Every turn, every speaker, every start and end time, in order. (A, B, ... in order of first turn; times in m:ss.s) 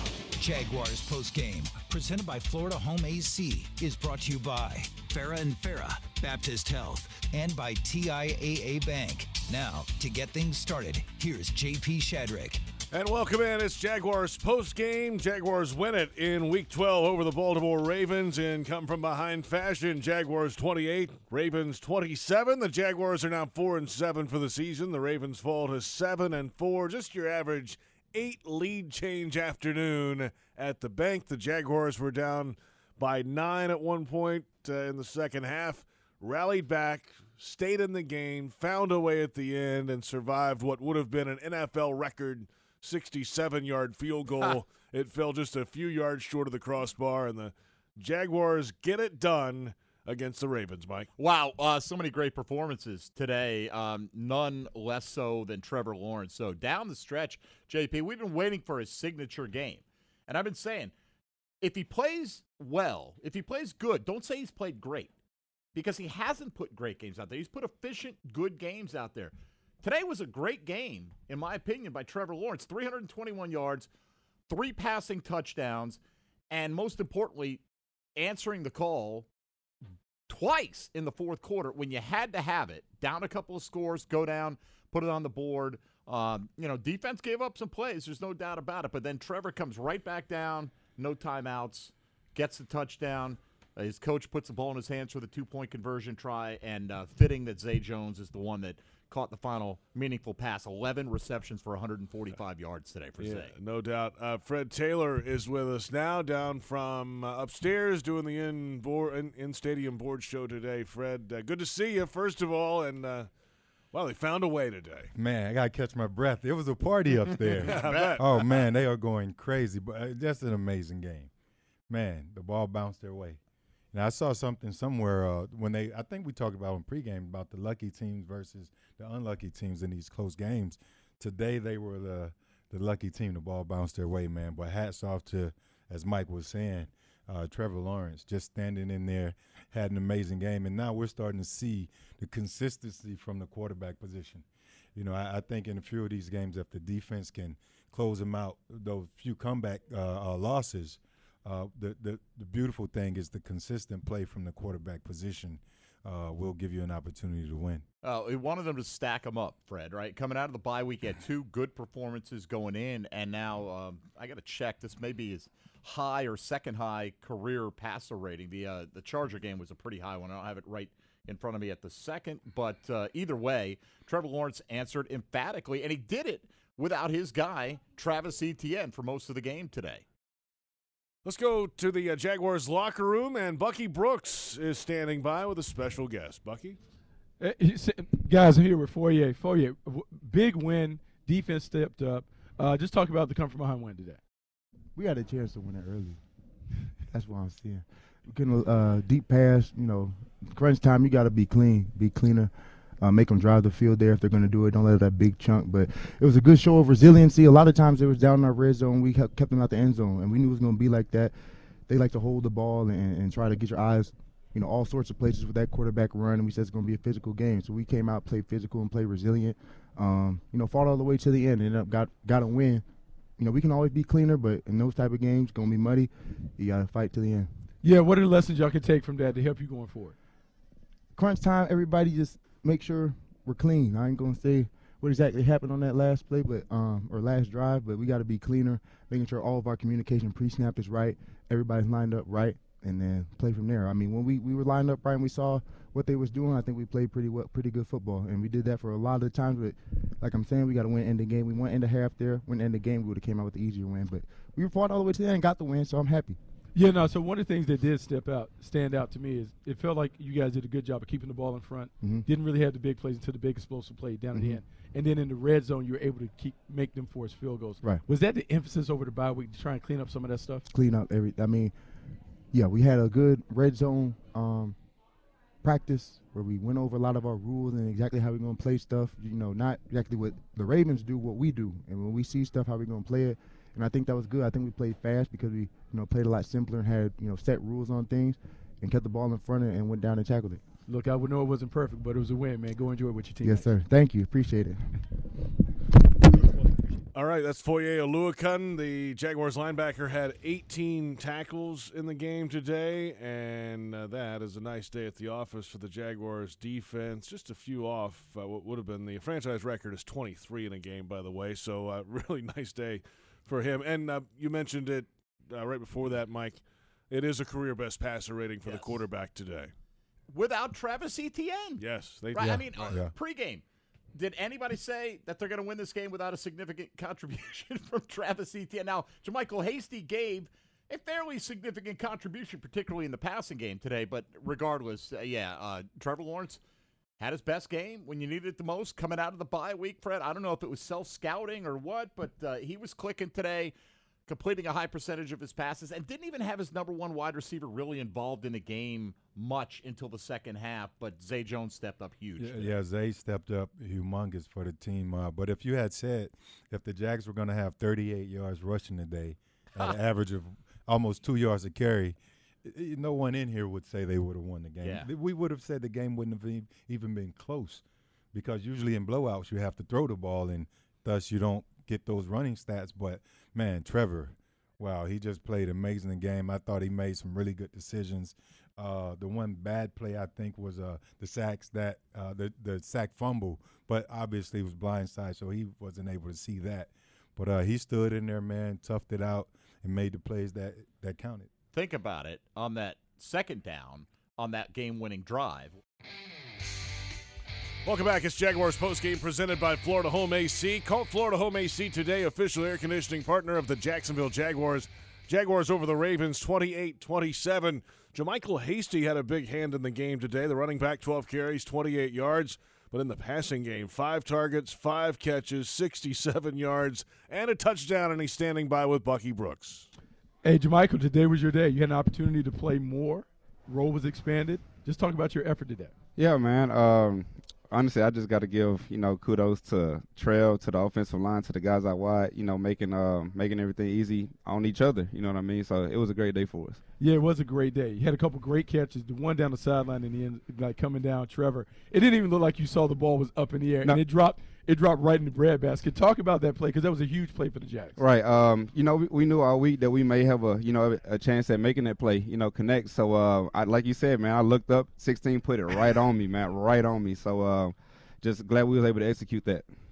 0:00.4-0:12.6 A
0:12.9-0:51.1 B
0:51.2-1:00.9 C
1:01.6-1:05.1 C
1:05.7-1:13.9 C
1:14.5-1:16.0 C
1:16.5-1:17.6 C
1:18.2-1:19.3 C
1:20.3-1:43.5 C
1:43.2-1:53.3 B
1:53.9-1:55.1 B
1:55.2-2:01.3 D
1:57.6-1:58.2 B
1:57.8-1:58.1 C
2:01.9-2:03.4 D
2:03.9-2:37.8 D
2:38.0-3:00.0 C
3:01.2-3:06.8 B
3:07.4-3:14.2 E
3:15.0-3:16.2 F
3:17.1-3:31.3 F
3:31.9-3:42.9 F
3:43.4-3:47.5 F
3:47.8-3:50.2 E
3:51.2-4:16.4 F
4:16.7-4:30.7 E
4:24.3-4:24.6 F
4:30.7-4:31.7 F
4:32.5-4:34.8 F
4:35.6-4:50.6 F
4:50.9-4:53.7 E
4:53.4-4:54.9 F
4:57.1-5:19.7 B
5:20.3-5:23.6 C
5:21.8-5:22.9 B
5:22.4-5:23.1 D
5:24.1-5:36.6 C
5:37.2-5:43.7 C
5:44.3-5:52.7 C
5:52.4-6:31.5 D
6:04.8-6:05.1 C
6:31.7-6:35.8 C
6:37.8-6:59.9 B
7:00.4-7:05.9 E
7:06.2-7:16.8 G
7:17.0-7:28.0 E
7:28.0-7:39.7 G